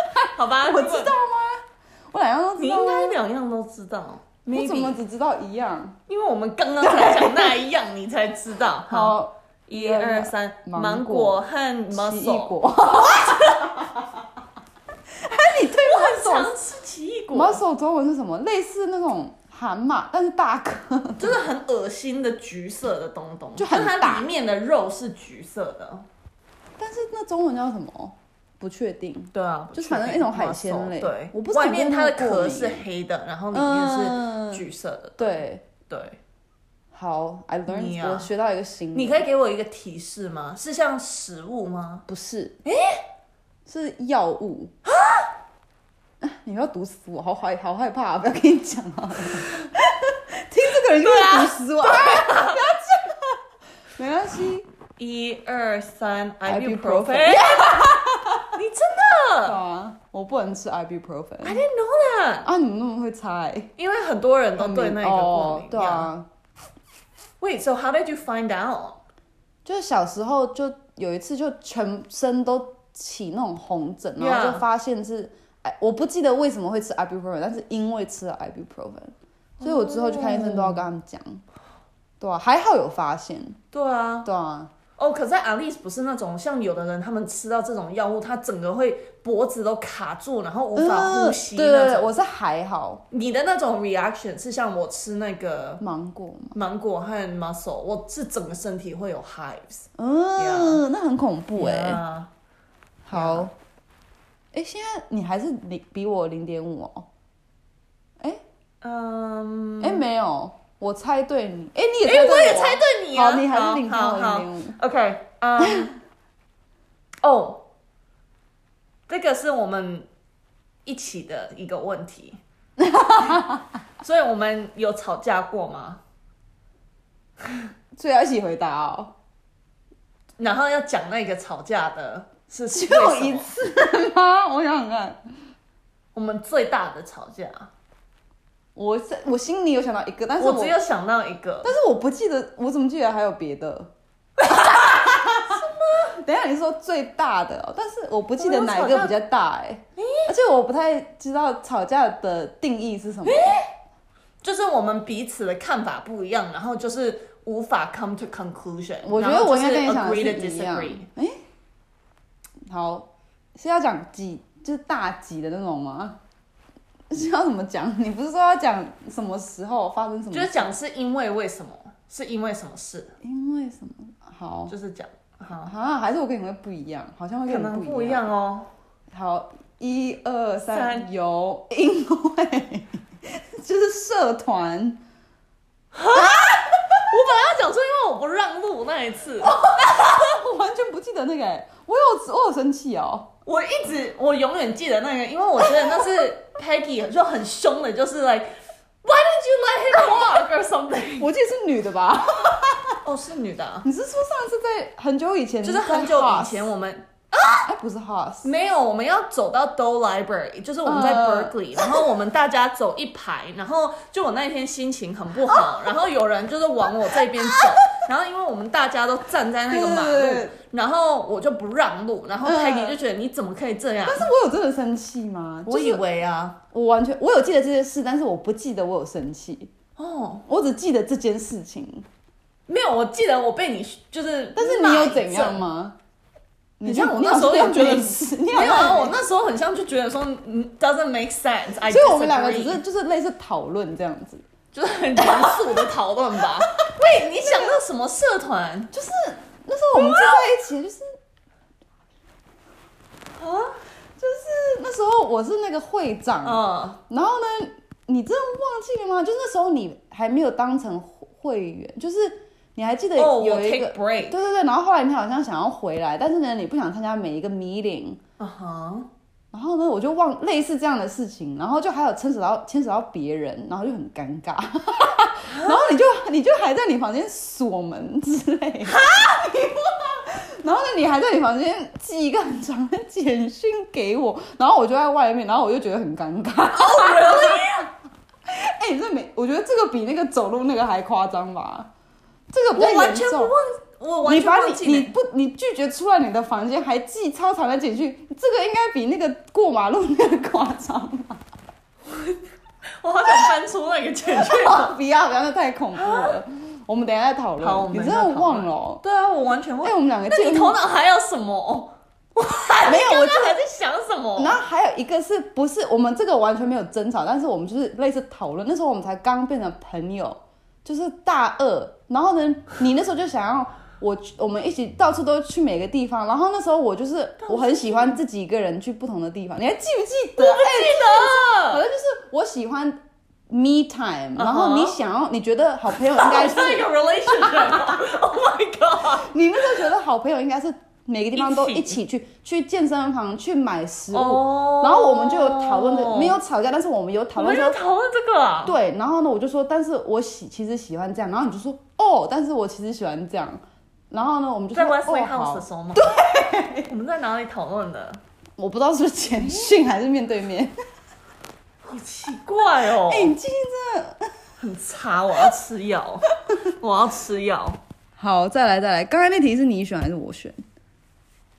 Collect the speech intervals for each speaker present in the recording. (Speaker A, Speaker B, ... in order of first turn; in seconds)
Speaker A: 0.2-3.2, 4.5-6.0, 6.8-7.5, 8.8-14.0, 15.2-16.5, 17.3-21.4, 23.6-24.3, 26.8-32.9, 33.5-34.6, 35.2-35.6, 36.9-39.2, 42.1-42.6, 43.7-44.7, 46.2-53.4, 54.0-54.6, 56.4-58.5, 59.4-61.6, 62.4-63.7, 64.5-66.3, 69.6-81.4, 82.2-83.6, 84.2-84.7, 90.7-93.0, 95.8-96.6, 100.0-102.0, 103.0-103.5, 104.5-107.1, 109.8-114.8, 122.8-123.7, 127.9-129.1, 132.7-135.2, 138.8-140.8, 141.6-143.9, 144.7-145.4, 146.2-153.6, 159.0-161.4, 162.7-166.2, 167.1-170.7, 173.2-174.7, 175.6-178.3, 179.1-185.0, 186.1-187.0, 189.4-193.3, 200.0-200.4, 201.2-203.0, 203.8-206.7, 207.7-208.5, 210.8-212.0, 215.5-215.9, 217.4-217.9, 219.7-220.6, 222.4-223.0, 224.0-226.0, 226.7-229.7, 230.5-232.1, 234.5-236.0, 236.8-239.2, 241.8-244.4, 245.2-245.9, 247.4-247.7, 248.9-251.0, 254.2-268.2, 269.5-287.9, 288.5-291.9, 292.5-293.5, 294.2-301.4, 304.3-309.0, 309.8-310.8, 312.8-313.6, 314.3-338.0, 339.0-347.8, 348.6-356.9, 358.6-360.7, 362.9-364.3, 368.2-370.6
Speaker B: 0.3-1.1, 2.6-5.0, 6.1-13.8, 15.7-17.6, 21.2-26.1, 29.3-36.2, 37.7-38.3, 38.9-42.0, 42.6-43.0, 44.9-45.3, 50.8-52.6, 55.0-57.8, 58.5-59.6, 61.4-62.5, 63.8-66.1, 67.4-69.0, 74.2-74.6, 79.6-80.9, 83.7-84.3, 85.0-92.1, 93.1-95.8, 96.5-100.8, 101.6-102.3, 103.1-103.5, 108.8-110.0, 112.0-116.0, 117.2-117.6, 119.1-120.1, 120.8-122.4, 124.0-126.0, 130.4-133.5, 136.1-137.7, 140.4-141.7, 144.4-146.2, 148.4-149.2, 150.0-150.3, 153.2-153.7, 154.4-161.1, 170.3-173.2, 174.7-175.7, 177.5-178.7, 180.7-181.1, 185.9-189.6, 193.4-201.3, 203.0-203.9, 205.6-207.7, 208.4-224.3, 225.6-226.6, 230.0-230.4, 232.7-235.6, 236.8-242.8, 244.7-248.9, 249.9-250.5, 253.3-253.8, 256.4-257.0, 263.1-264.4, 268.4-269.1, 275.5-275.9, 278.9-279.4, 286.7-287.9, 292.7-295.1, 302.1-302.4, 303.0-304.9, 305.9-306.4, 307.6-314.6, 327.4-328.2, 330.4-331.8, 334.4-335.0, 335.9-339.9, 341.3-342.0, 344.1-346.4, 347.4-348.8, 354.7-356.1, 356.9-358.2, 359.4-359.7, 361.8-363.3, 364.6-367.8